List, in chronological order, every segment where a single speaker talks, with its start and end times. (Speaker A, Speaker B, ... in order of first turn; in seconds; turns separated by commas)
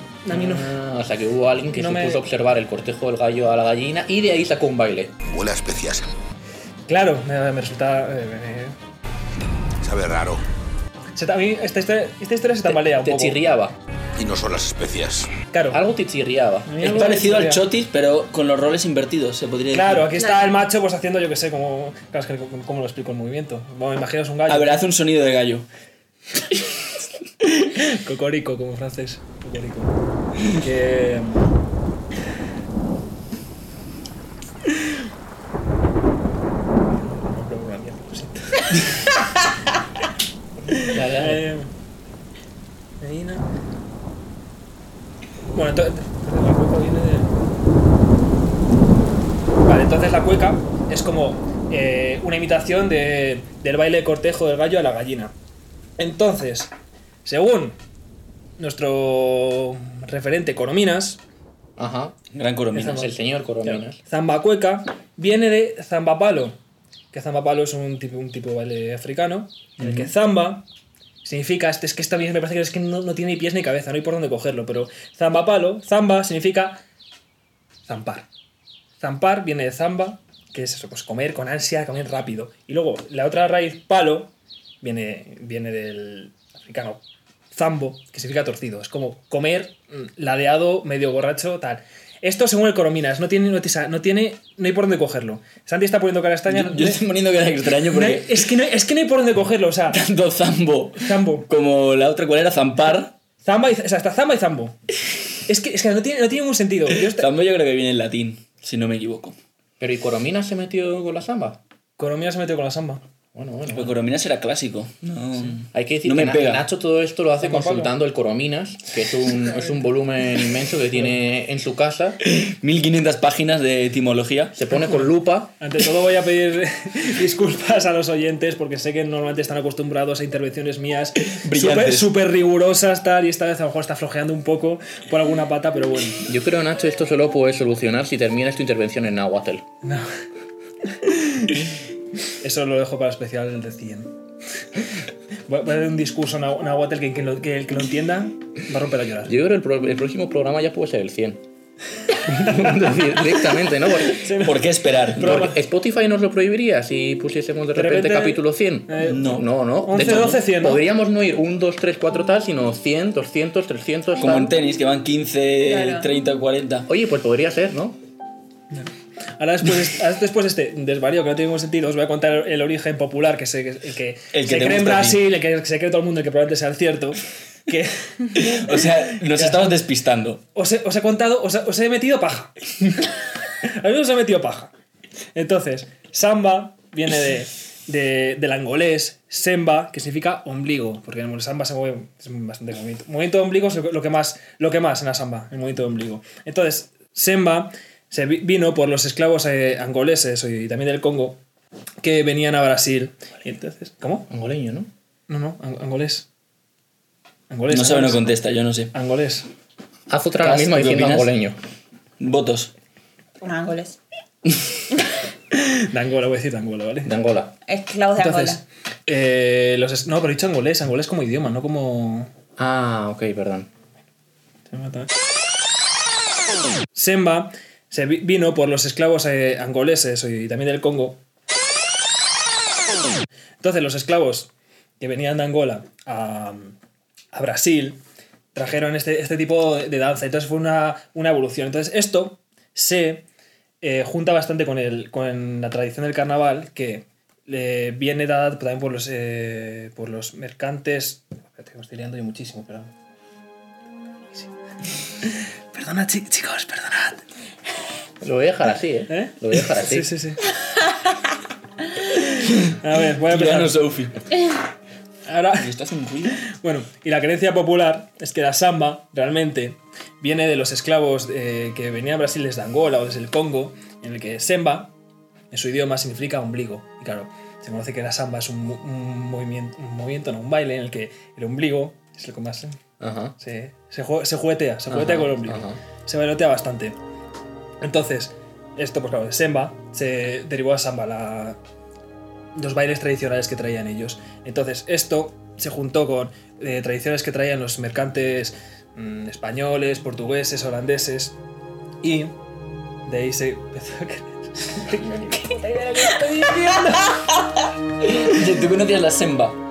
Speaker A: 0.2-0.7, Speaker B: 0.3-5.2, Speaker A: 1.7-2.2, Speaker C: 5.3-6.1, Speaker A: 6.9-8.8, Speaker C: 9.8-10.4, Speaker A: 11.2-13.4, Speaker B: 12.6-13.8, Speaker C: 14.2-15.3, Speaker A: 15.5-15.8, Speaker B: 15.7-16.9, Speaker A: 16.6-17.6, Speaker D: 16.8-20.1, Speaker A: 19.7-24.8, Speaker E: 20.2-20.5, Speaker D: 24.5-25.7, Speaker A: 27.4-31.5, Speaker A: 36.9-39.0, Speaker A: 40.7-41.7, Speaker B: 40.9-41.4, Speaker A: 43.0-43.5, Speaker A: 45.5-47.4, Speaker A: 49.6-55.3, Speaker A: 56.0-56.7, Speaker A: 57.2-57.8, Speaker A: 58.6-61.2, Speaker B: 61.8-62.2, Speaker D: 62.3-63.1, Speaker A: 62.7-66.6, Speaker B: 62.9-64.0, Speaker A: 67.1-70.7, Speaker D: 69.8-70.1, Speaker A: 71.2-76.8, Speaker A: 77.9-78.3, Speaker A: 79.0-87.0, Speaker A: 87.5-97.0, Speaker D: 96.5-98.4, Speaker A: 97.9-100.0, Speaker D: 99.9-103.2, Speaker A: 101.0-101.5, Speaker A: 103.4-104.8, Speaker A: 105.5-107.3, Speaker D: 107.1-109.4, Speaker B: 109.8-111.6, Speaker A: 112.0-113.0, Speaker B: 113.3-113.9, Speaker D: 113.7-116.7, Speaker B: 115.7-122.2, Speaker A: 117.4-117.9, Speaker D: 122.2-124.5, Speaker B: 124.5-125.5, Speaker A: 124.8-136.3, Speaker D: 131.2-132.1, Speaker B: 136.2-139.7, Speaker A: 139.8-140.1, Speaker A: 141.0-141.6, Speaker A: 142.4-144.2, Speaker A: 145.5-149.3, Speaker B: 149.2-151.4, Speaker B: 152.2-154.3, Speaker A: 152.4-152.7, Speaker A: 154.1-155.6, Speaker D: 154.4-155.5, Speaker B: 155.2-164.5, Speaker A: 157.7-160.8, Speaker D: 159.0-159.5, Speaker D: 164.2-166.9, Speaker E: 165.7-166.1, Speaker B: 166.9-168.0, Speaker A: 168.7-179.8, Speaker D: 174.3-175.2, Speaker D: 178.3-180.4, Speaker A: 180.6-183.1, Speaker A: 183.6-184.7, Speaker A: 185.3-201.4, Speaker A: 202.0-204.3, Speaker B: 204.3-204.9, Speaker A: 205.3-206.3, Speaker A: 207.5-208.3, Speaker D: 207.7-208.9, Speaker A: 208.9-209.5, Speaker B: 210.1-211.6, Speaker D: 210.4-211.3, Speaker D: 212.2-212.7, Speaker E: 213.4-214.0, Speaker A: 215.5-217.1, Speaker B: 217.1-217.6, Speaker E: 217.7-218.6, Speaker A: 218.2-222.3, Speaker B: 222.6-223.7, Speaker A: 224.7-225.1, Speaker A: 226.9-231.2, Speaker A: 233.6-236.8, Speaker A: 237.3-238.0, Speaker A: 238.5-243.2, Speaker A: 243.8-252.9, Speaker A: 255.2-257.2, Speaker B: 258.2-260.1, Speaker A: 259.1-260.4, Speaker A: 262.4-263.8, Speaker D: 263.3-264.2, Speaker A: 265.3-265.7, Speaker D: 265.6-266.4, Speaker A: 266.4-274.9, Speaker A: 275.5-282.8, Speaker B: 283.0-283.4, Speaker A: 283.4-287.0, Speaker B: 284.9-285.8, Speaker A: 287.8-291.6, Speaker A: 292.6-301.4, Speaker A: 302.0-302.4, Speaker A: 303.1-307.2, Speaker D: 308.0-309.6